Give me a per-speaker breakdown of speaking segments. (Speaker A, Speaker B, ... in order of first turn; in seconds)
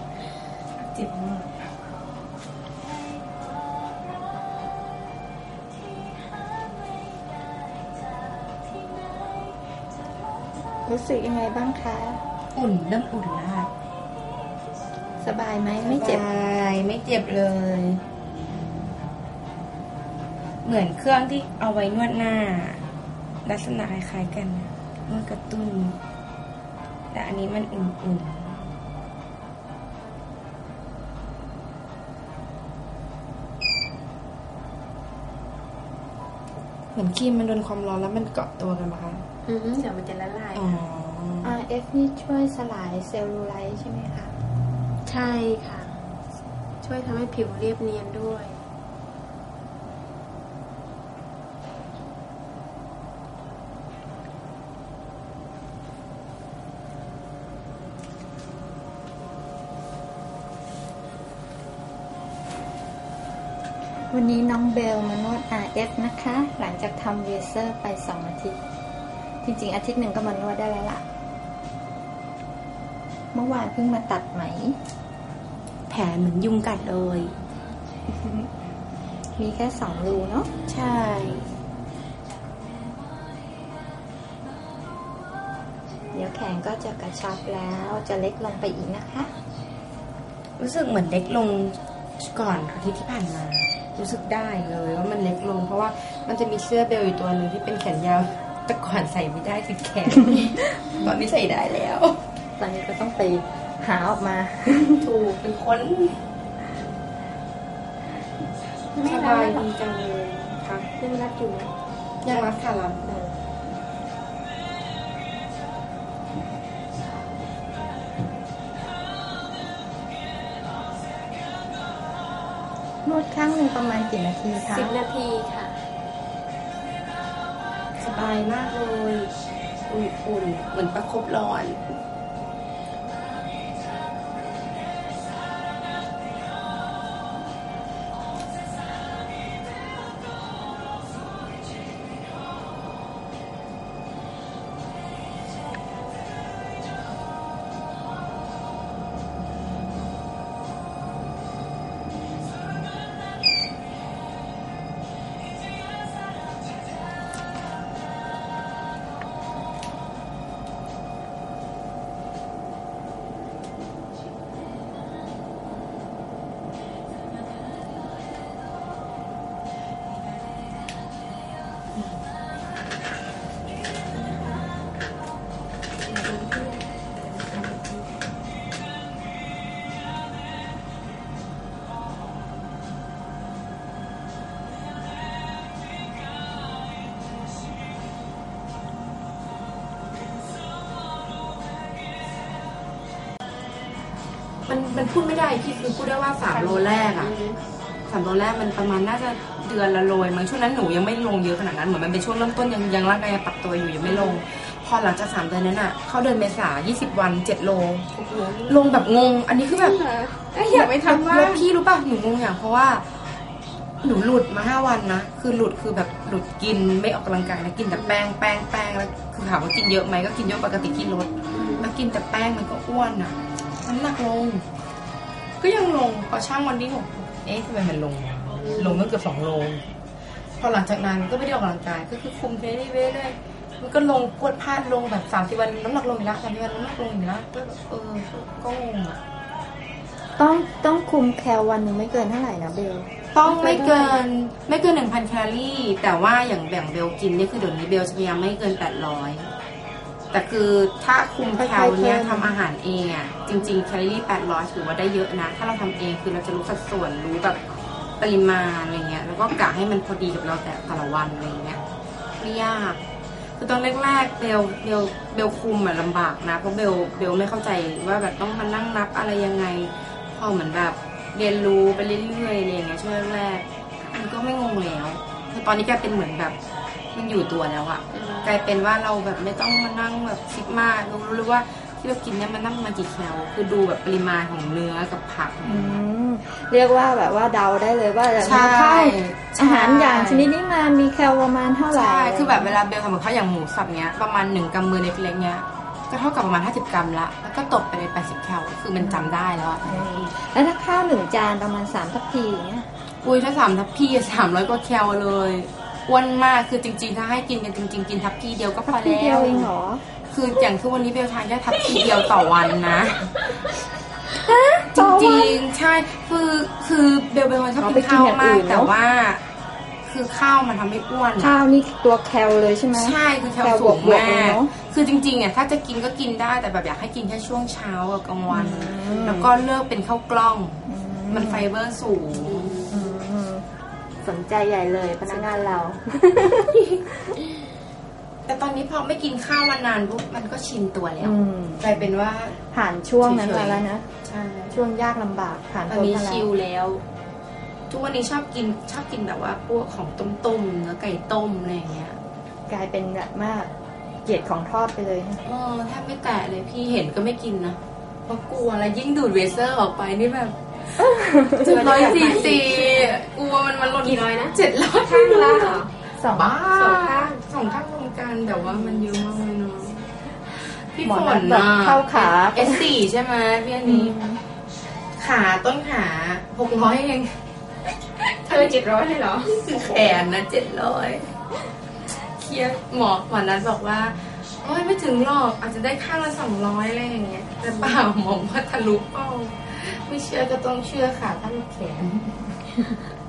Speaker A: 0.9-1.4, 12.5-13.7, 15.8-18.0, 20.6-22.9, 23.4-26.0, 27.1-28.7, 37.0-39.2, 40.5-41.6, 75.9-77.3, 80.7-81.5, 90.6-102.2, 104.8-106.2, 109.0-110.9, 112.2-113.1, 128.0-129.3, 129.9-131.8, 194.7-197.3, 198.1-208.1, 208.7-210.0, 210.6-213.3, 214.0-224.7, 225.6-229.8, 230.6-239.2, 243.3-249.5, 250.3-261.8, 262.4-263.0, 263.6-276.6, 277.1-286.0, 288.4-290.5, 291.9-300.3, 303.2-309.7, 310.3-313.3, 314.8-319.4, 320.0-321.5, 322.9-332.8, 335.3-335.6, 338.5-342.6, 343.2-344.8, 345.9-347.0, 347.9-352.2, 355.4-374.1, 375.2-377.4, 378.1-381.3, 382.3-392.8
Speaker B: 10.8-12.2, 15.2-16.2, 41.4-44.4, 64.1-68.6, 69.4-71.0, 73.3-74.8, 78.1-78.5, 79.4-80.5, 86.1-89.3, 102.6-105.0, 123.0-125.0, 240.4-244.1, 251.6-252.6, 285.6-292.8, 299.0-302.9, 308.9-310.0, 314.4-315.6, 317.8-318.9, 321.4-324.7, 328.5-329.5, 330.9-331.6, 332.9-333.7, 334.2-337.1, 341.2-342.0, 342.7-344.1, 344.7-346.5, 352.7-353.7, 354.2-355.4, 361.0-361.8, 366.2-366.5, 371.0-372.9, 373.9-374.4
Speaker C: 39.5-40.8, 45.0-46.0, 46.8-48.6, 109.0-109.7, 111.0-111.7, 113.0-113.3, 124.7-125.8, 174.1-174.7, 176.1-178.1, 196.5-197.6, 204.1-204.4, 208.2-208.8, 209.7-211.6, 221.5-221.9, 228.6-229.0, 243.5-244.0, 278.1-278.5, 332.4-333.0, 361.5-363.2, 364.0-365.9, 366.8-367.4, 378.5-379.6